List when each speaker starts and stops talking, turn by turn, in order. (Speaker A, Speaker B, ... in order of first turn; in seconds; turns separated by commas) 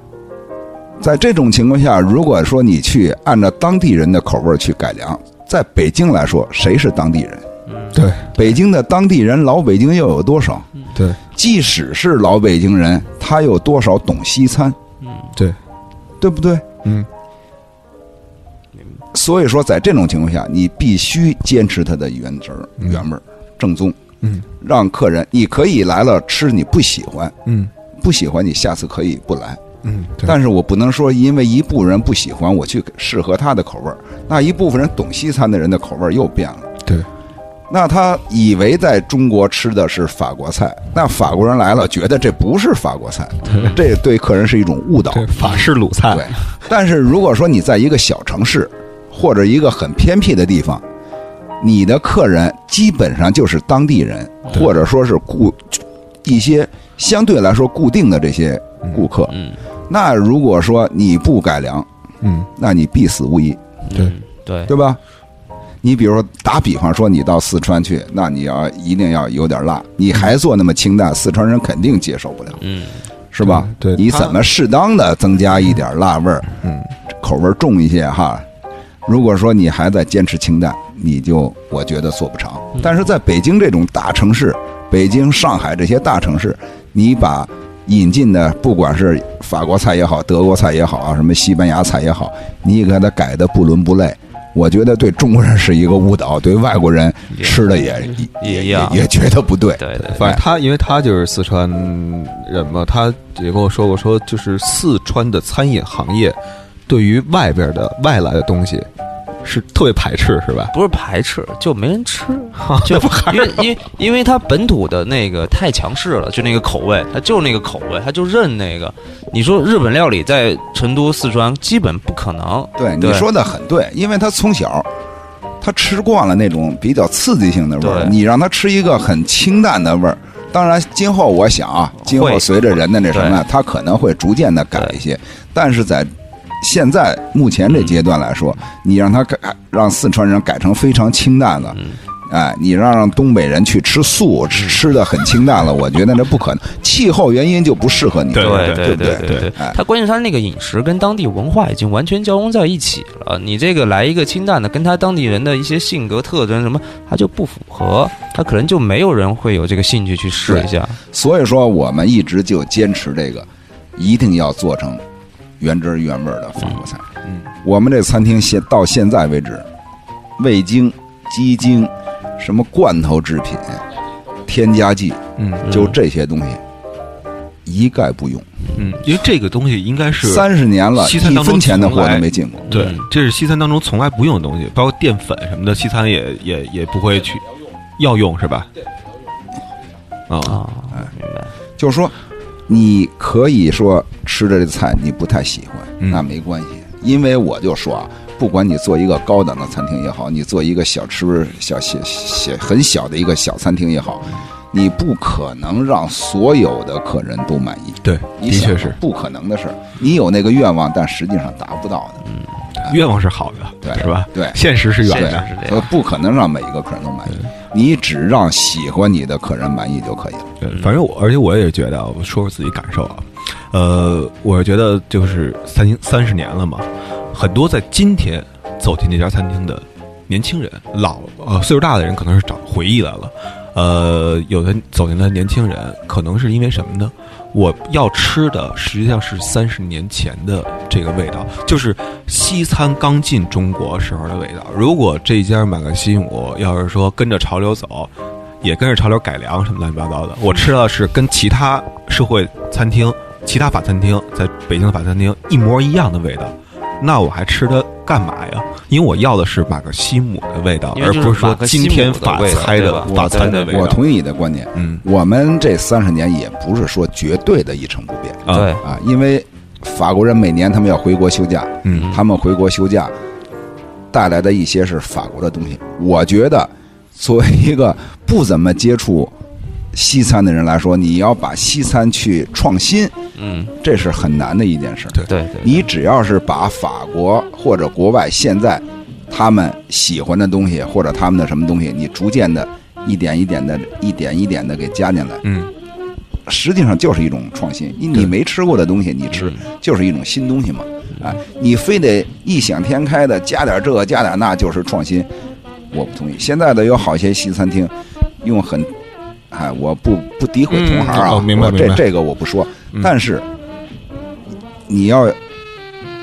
Speaker A: 1.0-7.5, Speaker B: 7.7-8.6, Speaker C: 7.9-8.3, Speaker A: 8.3-10.7, Speaker A: 11.3-14.8, Speaker B: 15.0-15.3, Speaker A: 16.2-16.7, Speaker A: 19.1-24.0, Speaker A: 24.6-27.4, Speaker C: 27.4-27.7, Speaker A: 28.0-29.6, Speaker C: 29.8-30.4, Speaker A: 30.2-36.7, Speaker A: 37.7-45.3, Speaker B: 43.5-43.8, Speaker C: 43.5-43.8, Speaker C: 45.1-46.3, Speaker A: 46.1-50.8, Speaker A: 51.6-59.4, Speaker B: 59.3-59.6, Speaker A: 59.9-61.9, Speaker C: 62.2-62.5, Speaker A: 62.5-63.6, Speaker B: 63.9-64.7, Speaker A: 64.7-65.0, Speaker A: 65.8-72.6, Speaker B: 72.6-73.0, Speaker A: 73.3-76.5, Speaker C: 73.4-74.3, Speaker C: 76.6-76.9, Speaker A: 77.1-78.5, Speaker A: 79.0-100.4, Speaker B: 97.4-99.0, Speaker B: 99.7-100.3, Speaker C: 100.0-108.9, Speaker C: 109.4-110.7, Speaker B: 110.7-123.3, Speaker C: 112.6-113.7, Speaker A: 122.8-124.9, Speaker A: 125.6-149.8, Speaker B: 127.8-128.2, Speaker B: 132.1-132.6, Speaker B: 133.1-133.4, Speaker B: 137.7-138.0, Speaker C: 148.3-149.5, Speaker B: 148.3-161.0, Speaker A: 160.4-165.0, Speaker A: 165.6-167.1, Speaker A: 167.6-169.7, Speaker A: 170.4-173.8, Speaker A: 174.4-176.6, Speaker C: 175.4-175.7, Speaker B: 175.6-176.0, Speaker A: 177.6-178.5, Speaker C: 178.7-187.5, Speaker A: 180.2-182.8, Speaker B: 182.7-183.1, Speaker C: 188.0-188.7, Speaker C: 190.3-190.6, Speaker B: 190.4-191.5, Speaker A: 191.8-192.2, Speaker A: 192.7-212.2, Speaker C: 208.0-209.0, Speaker C: 212.8-215.5, Speaker A: 213.8-220.5, Speaker B: 215.0-215.9, Speaker C: 220.6-248.1, Speaker C: 248.6-264.0, Speaker B: 260.9-263.9, Speaker A: 263.1-273.1, Speaker C: 264.8-265.0, Speaker C: 268.4-268.8, Speaker B: 268.5-268.8, Speaker C: 271.8-272.1, Speaker B: 271.9-272.2, Speaker A: 274.1-279.3, Speaker A: 279.9-283.1, Speaker B: 283.4-283.7, Speaker A: 283.8-295.4, Speaker B: 285.2-285.9, Speaker C: 295.4-295.7, Speaker A: 296.5-305.3, Speaker A: 305.9-308.9, Speaker A: 309.5-313.5, Speaker C: 310.7-312.0, Speaker A: 314.9-315.4